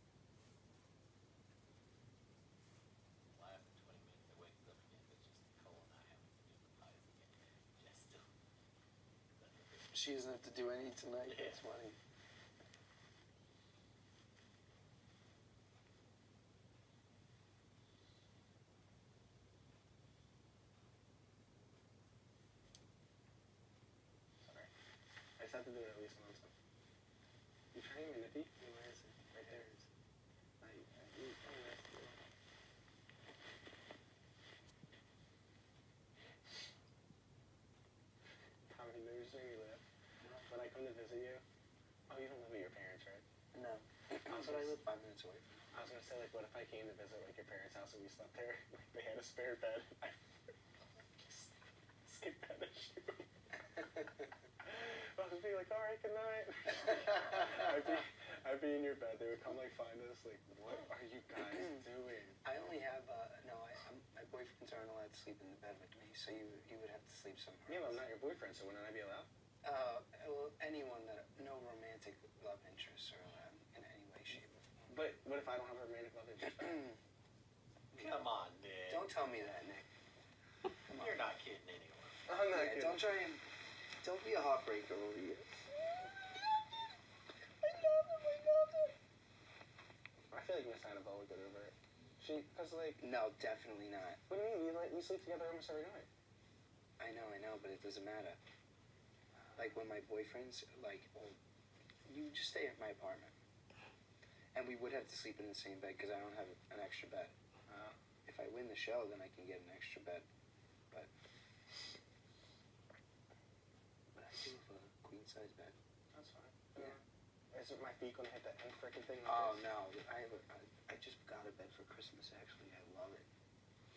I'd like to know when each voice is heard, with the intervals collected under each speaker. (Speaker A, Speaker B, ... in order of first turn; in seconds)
Speaker A: 3.3-8.3, 9.3-10.0, 11.2-11.7, 77.9-79.1, 80.9-82.3
Speaker B: 9.9-12.0, 28.6-29.9, 43.5-45.6, 62.4-68.0, 69.6-74.9, 78.9-79.9, 80.9-81.2, 82.5-83.4, 84.0-85.6, 87.6-88.9, 93.0-94.2, 97.0-98.4, 99.5-101.4, 102.0-103.3, 104.5-107.3, 108.2-110.2, 114.1-115.7, 119.2-123.3
Speaker C: 24.4-24.7, 25.4-26.5, 27.7-28.5, 29.3-29.6, 30.6-32.2, 38.7-39.8, 40.4-41.4, 42.1-43.2, 44.3-44.8, 45.7-50.5, 51.2-51.5, 52.0-53.3, 54.6-62.4, 67.7-69.3, 74.9-77.0, 82.3-83.1, 90.3-93.1, 94.3-96.1, 107.7-108.0, 116.1-117.0, 117.5-119.7